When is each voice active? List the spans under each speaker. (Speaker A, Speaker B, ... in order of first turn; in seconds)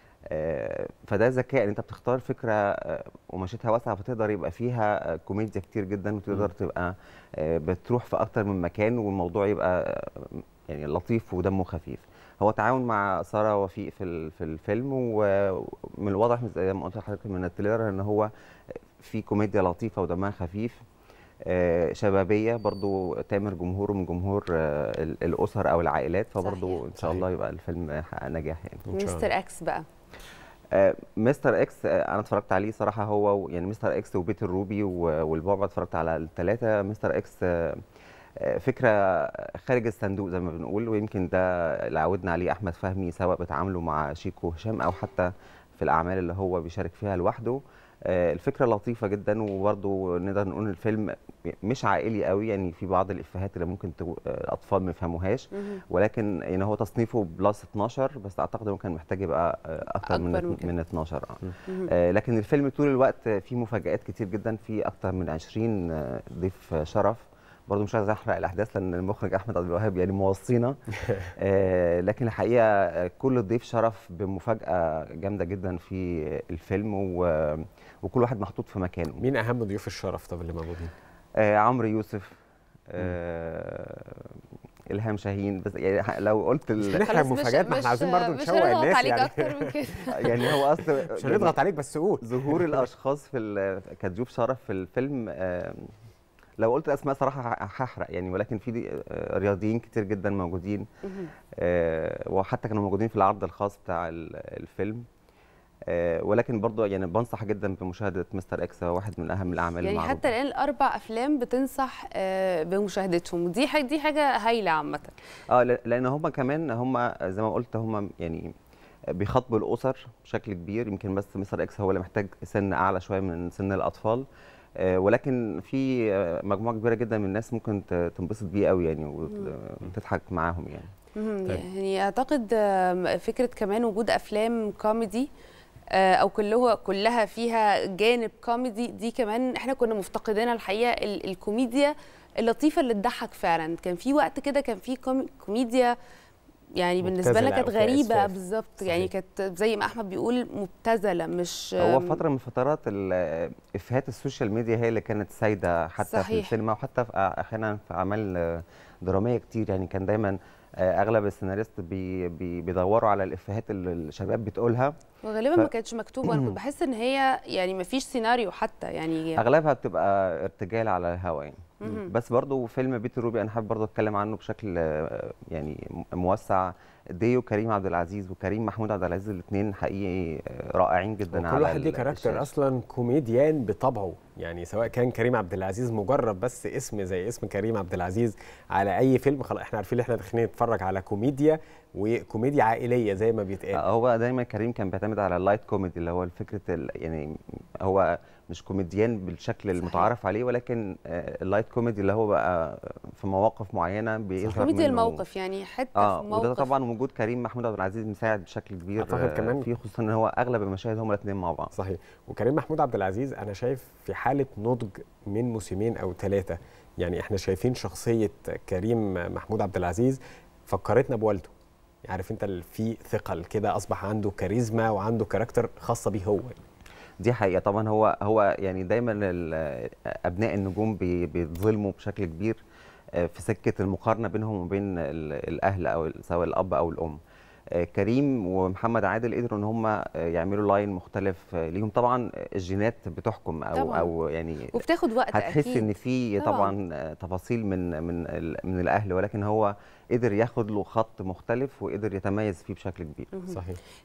Speaker A: 0.3-18.3, 19.0-20.8, 21.4-28.8, 30.7-37.8, 38.4-70.8, 71.3-79.2, 81.4-82.3, 82.9-84.3, 84.9-87.0, 90.1-91.5, 92.2-95.9, 96.6-100.8, 101.6-105.0, 105.9-110.3, 115.5-118.5, 119.2-124.2, 124.8-130.9, 151.8-164.9, 166.2-166.6, 169.4-182.5, 193.7-197.3, 197.8-205.2, 206.0-211.7, 227.2-232.6, 233.2-237.2, 237.8-244.8, 245.3-253.3
Speaker B: 26.4-26.8, 28.9-29.8, 55.5-55.8, 60.0-60.7, 61.6-61.9, 87.0-90.4, 101.0-101.3, 109.8-115.1, 131.2-135.3, 135.9-145.9, 146.8-152.2, 156.0-156.5, 165.2-169.4, 171.8-172.1, 199.8-200.1, 204.5-206.7, 243.7-244.1, 244.7-245.9, 246.4-246.7, 253.3-253.6
Speaker C: 27.0-27.2, 28.9-29.3, 79.2-80.9, 86.8-92.8, 147.0-149.1, 181.3-193.8, 204.4-204.7, 209.0-209.7, 211.7-221.5, 222.0-226.6, 253.5-253.8